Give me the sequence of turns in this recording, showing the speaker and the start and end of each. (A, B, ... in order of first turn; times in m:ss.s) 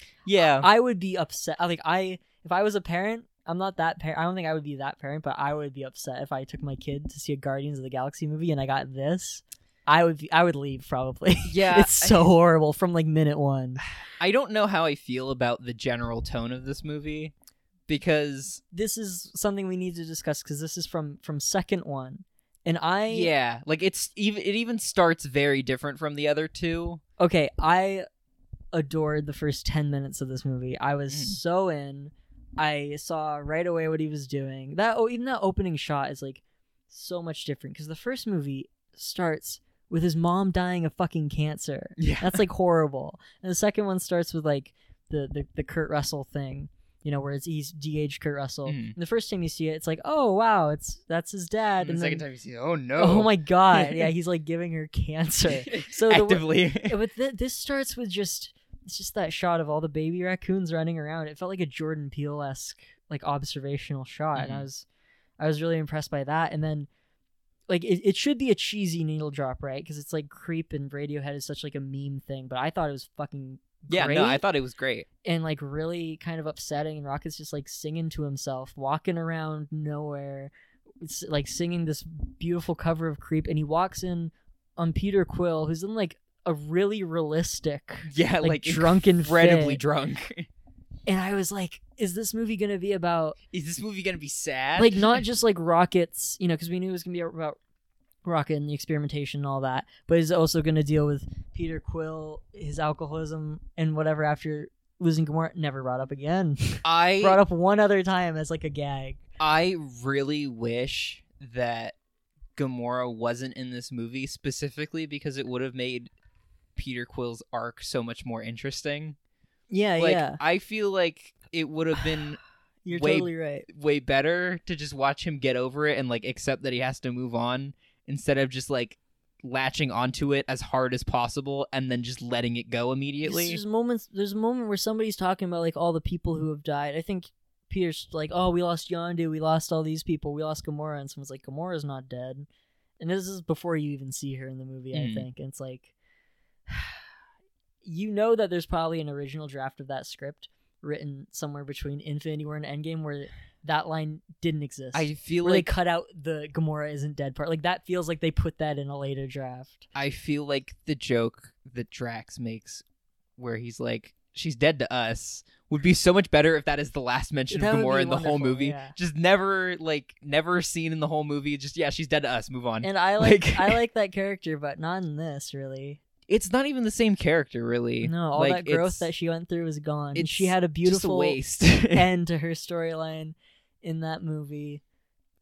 0:00.2-0:00.7 A
0:00.6-0:13.8 B
0:11.5-0:12.3 A
0:14.1-0:17.3 A
0:17.9-0:18.6 A
0:18.7-0:23.3 B
0:23.1-0:27.0 A
0:27.2-0:28.1 B
0:28.7-0:52.2 B
0:31.1-0:31.4 A
0:42.0-0:42.4 A
0:48.7-0:48.9 A
0:51.8-0:54.1 A
0:53.0-1:04.9 B
0:55.5-0:57.0 A
1:04.4-1:04.7 A
1:05.4-1:06.9 B
1:07.7-1:14.4 B
1:13.9-1:15.1 A
1:15.2-1:29.8 B
1:28.1-1:30.5 A
1:31.1-1:33.4 B
1:33.5-1:35.2 A
1:34.8-1:37.6 B
1:38.2-1:49.2 B
1:46.8-1:47.4 A
1:49.4-1:52.0 A
1:52.6-1:56.1 A
1:56.8-1:59.2 A
1:59.7-2:00.4 B
2:00.0-2:02.4 A
2:02.8-2:03.7 B
2:02.9-2:13.6 A
2:13.2-2:22.5 B
2:23.0-2:25.9 B
2:24.9-2:25.3 A
2:26.7-2:27.0 B
2:27.8-2:39.9 B
2:34.9-2:35.7 A
2:40.0-2:42.8 A
2:43.4-2:53.8 A
2:47.5-2:49.0 B
2:52.8-2:56.0 B
2:56.3-2:59.1 A
2:58.0-3:04.8 B
3:00.1-3:02.1 A